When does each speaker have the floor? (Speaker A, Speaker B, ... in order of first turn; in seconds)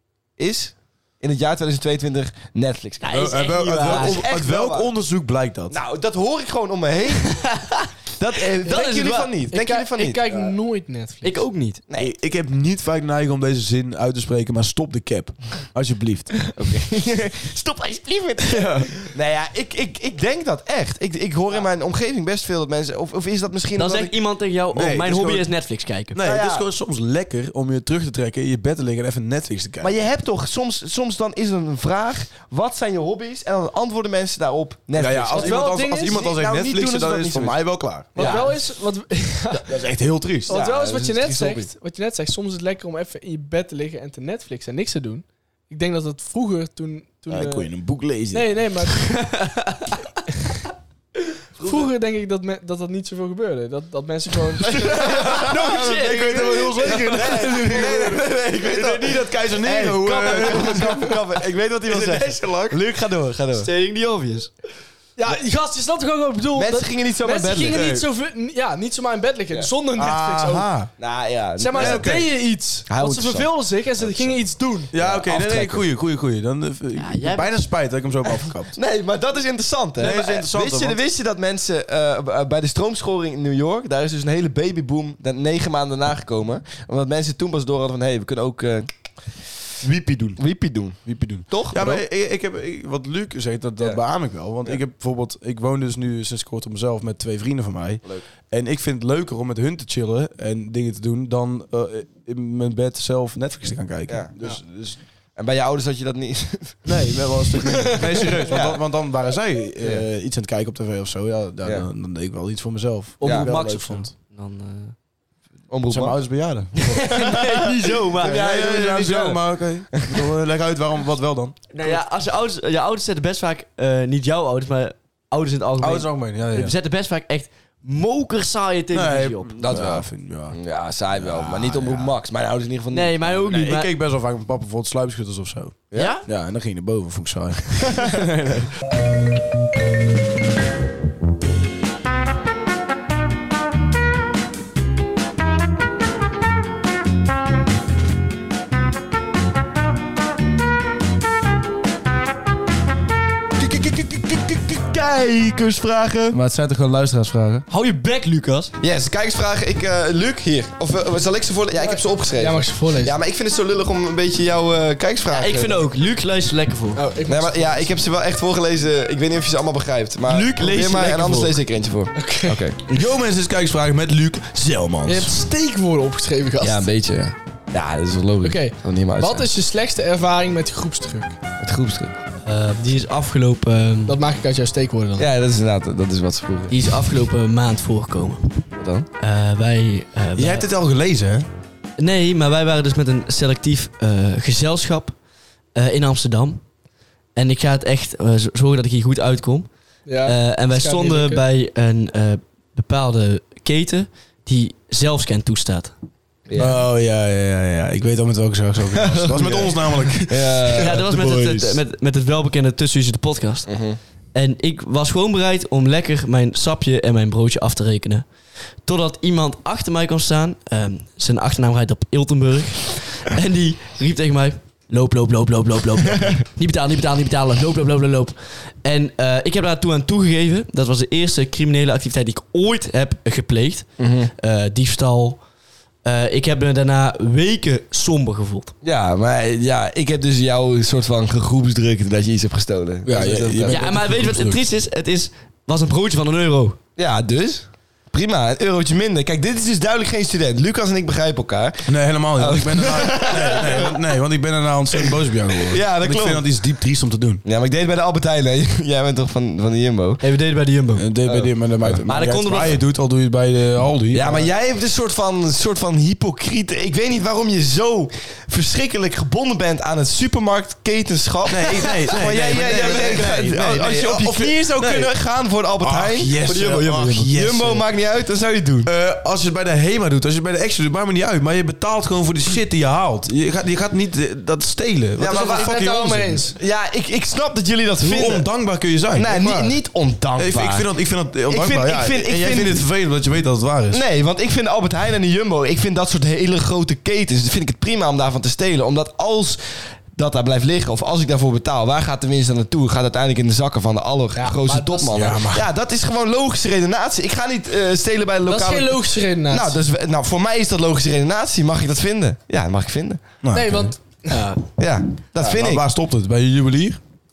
Speaker A: 0.4-3.2, 3.8-4.9, 5.7-7.4, 8.2-10.5, 11.9-12.1, 16.5-24.1, 26.2-26.6, 29.8-37.6, 38.1-38.5, 40.5-41.7, 54.6-63.7, 66.5-67.9, 71.0-72.2, 72.9-74.4, 74.9-75.8, 78.7-89.4, 90.4-92.0, 104.1-104.3, 105.3-106.8, 108.5-108.8, 113.2-113.5, 115.7-116.2, 117.0-117.4, 118.2-120.3, 129.6-133.6, 137.9-138.2, 153.6-156.4, 158.8-165.8, 167.3-172.8, 176.6-179.5, 181.6-182.1, 185.2-186.7, 188.8-189.1, 206.5-206.8, 209.0-211.8, 213.7-214.0, 234.0-234.3, 238.8-243.8, 247.0-254.1, 254.9-256.4, 257.4-260.2, 261.2-262.0, 264.1-276.4, 277.3-278.9, 285.2-285.7, 286.6-288.5, 289.1-290.9, 291.5-292.8, 293.9-313.2, 314.8-315.8
Speaker B: 3.0-4.2, 7.3-7.9, 8.6-9.3, 11.2-11.8, 23.8-26.2, 49.1-50.0, 55.0-57.5, 63.5-64.5, 76.9-77.6, 113.2-114.9, 116.8-118.4, 121.7-129.5, 132.9-133.9, 135.9-136.2, 157.7-158.7, 165.3-167.0, 170.3-171.6, 182.4-184.2, 186.7-188.6, 189.2-190.7, 192.0-195.2, 195.7-196.6, 197.3-199.7, 200.2-205.9, 210.8-213.7, 214.3-218.3, 218.8-233.9, 234.4-235.4, 236.0-238.7, 243.7-246.8, 260.2-261.1, 262.1-262.8, 272.1-273.5, 276.4-277.3, 314.3-314.6
Speaker C: 3.1-5.8, 11.9-16.5, 18.4-19.1, 24.7-25.5, 26.1-29.9, 34.9-38.4, 39.6-40.6, 47.3-48.5, 55.2-61.2, 61.8-62.8, 67.7-68.0, 70.0-70.9, 71.7-72.3, 74.9-78.8, 80.0-81.0, 89.8-90.4, 91.0-105.0, 106.8-114.1, 115.9-117.1, 118.2-121.6, 125.8-126.8, 128.9-130.6, 131.1-132.1, 133.5-138.7, 156.3-157.6, 172.9-175.3, 190.3-191.4, 206.6-211.1, 243.1-244.6, 251.8-257.4, 260.9-264.5, 271.5-275.1, 275.8-277.8, 278.8-286.4, 288.0-289.8, 290.4-294.0, 305.1-305.7, 313.4-313.9, 315.4-317.0
Speaker D: 8.8-11.5, 35.3-36.2, 38.1-39.8, 40.5-47.7, 48.3-49.4, 51.6-55.0, 65.2-70.7, 71.6-74.9, 107.6-108.4, 161.8-163.2, 166.9-167.9, 172.1-172.6, 175.0-176.9, 178.4-181.4, 184.1-185.3, 200.1-201.4, 285.2-286.6, 304.3-305.4, 308.4-309.8, 313.5-314.5